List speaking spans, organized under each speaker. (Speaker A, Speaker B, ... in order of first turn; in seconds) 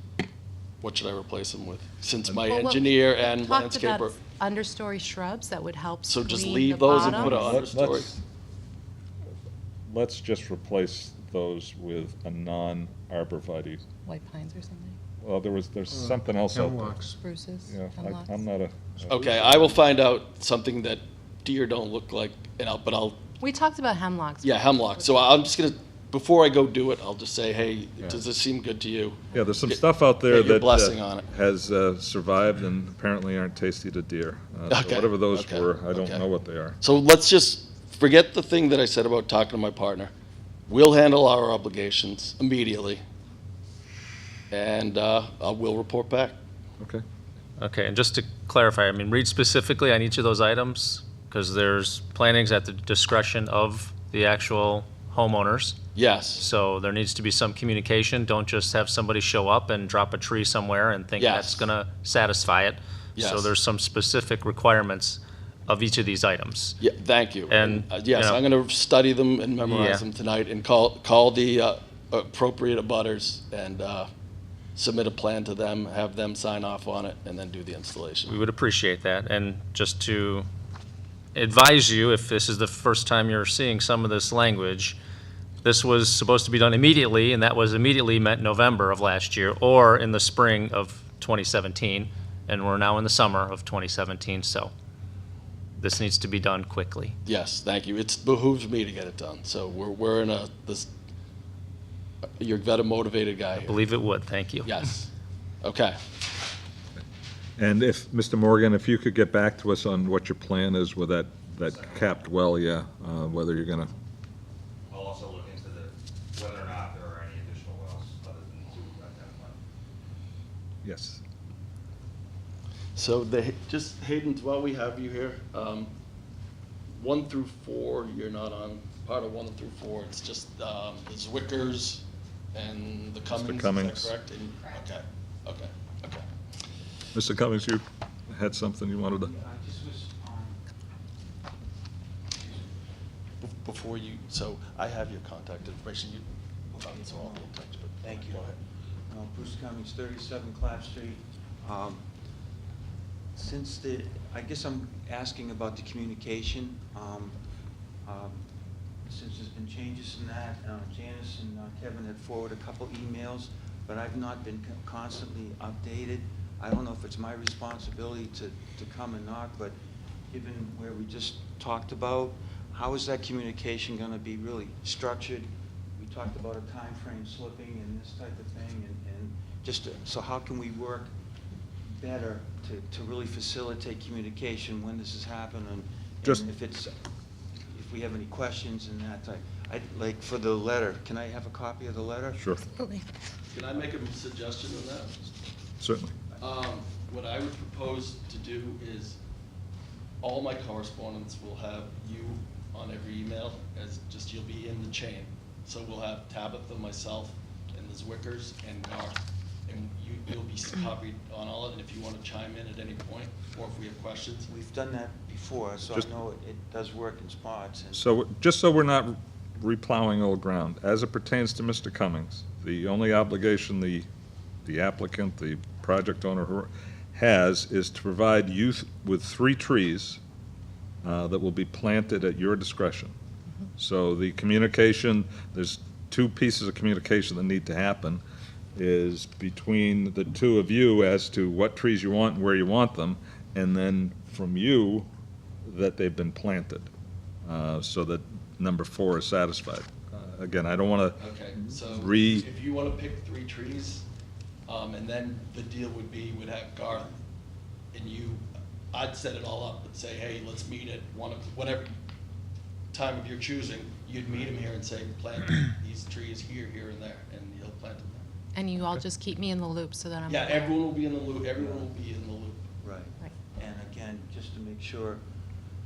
Speaker A: 0.8-4.2, 6.1-8.1, 19.1-23.2, 24.4-31.2, 34.7-36.2, 36.8-40.1, 40.7-43.0, 44.5-46.4, 55.9-56.4, 61.2-61.7, 63.1-63.5, 66.8-74.1, 74.7-78.4, 97.2-100.9, 102.4-103.8, 104.6-105.1, 105.6-106.0, 122.9-125.9, 127.0-136.2, 143.4-148.6, 193.5-195.2, 196.4-199.2, 200.2-214.5, 251.2-254.1, 254.7-257.2, 257.9-261.9, 262.9-268.3, 270.3-272.6
Speaker B: 2.5-7.4, 14.1-14.9, 17.2-18.3, 23.4-24.7, 192.8-193.0, 268.5-270.7
Speaker C: 7.0-8.2, 9.9-13.8, 15.2-17.0, 17.7-19.5, 29.3-36.8, 107.6-113.9, 120.8-121.2, 133.3-134.1, 137.1-139.3, 192.3-192.6, 195.8-196.1, 217.9-224.1, 224.6-230.2, 231.0-233.1, 233.8-238.2, 238.8-245.1, 245.6-246.9, 247.4-252.4
Speaker D: 16.5-17.2, 115.5-115.9, 116.7-119.5
Speaker E: 47.6-55.8, 56.4-66.8, 67.5-68.4, 69.6-70.0, 78.3-80.5, 81.3-85.0, 85.6-94.7, 95.8-97.2, 103.6-104.8
Speaker F: 139.2-140.6, 142.3-142.7, 148.0-148.6, 149.1-152.0, 153.3-157.3, 158.0-158.4, 159.1-169.7, 170.3-181.1, 181.9-186.9, 187.7-192.4, 214.5-218.0, 271.6-271.8, 272.8-275.2